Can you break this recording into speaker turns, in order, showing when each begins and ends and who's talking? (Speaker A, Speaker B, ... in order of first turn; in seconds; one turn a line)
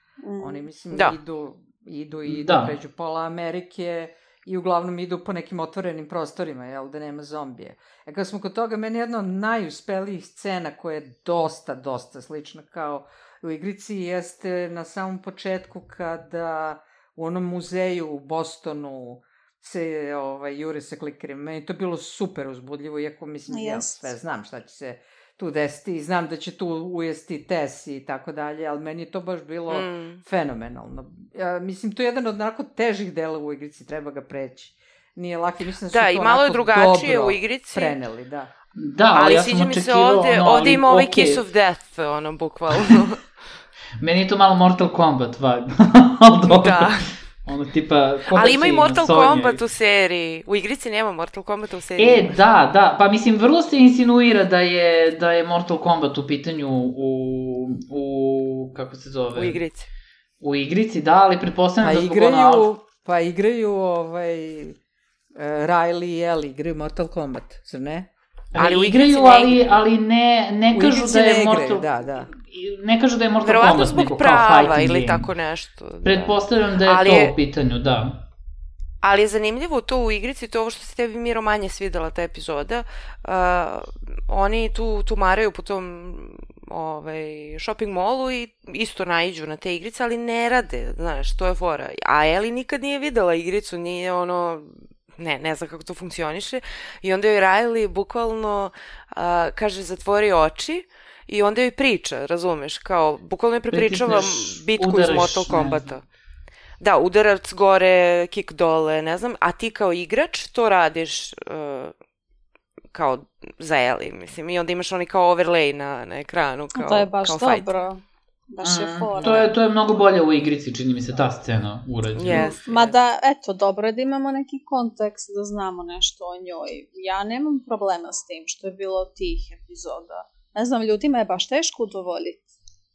Speaker A: 0.2-0.6
Speaker B: 0.4-38.5
Speaker C: 0.9-1.1
Speaker D: 2.2-2.8
Speaker A: 23.5-24.1
Speaker C: 29.7-30.2
Speaker C: 35.9-38.0
Speaker D: 38.8-41.4
Speaker C: 39.1-43.2
Speaker D: 44.0-49.6
Speaker C: 46.5-47.1
Speaker C: 48.3-52.4
Speaker D: 52.0-59.6
Speaker C: 59.3-59.9
Speaker D: 60.4-62.7
Speaker B: 61.8-64.8
Speaker B: 65.3-68.1
Speaker D: 68.5-75.3
Speaker C: 68.6-69.8
Speaker B: 70.7-72.3
Speaker C: 73.4-77.3
Speaker D: 76.0-78.2
Speaker C: 79.0-106.0
Speaker D: 103.7-105.9
Speaker C: 106.8-111.9
Speaker C: 112.9-117.7
Speaker A: 116.7-119.5
Speaker D: 118.6-122.9
Speaker C: 119.2-119.5
Speaker C: 122.2-122.7
Speaker A: 122.3-132.4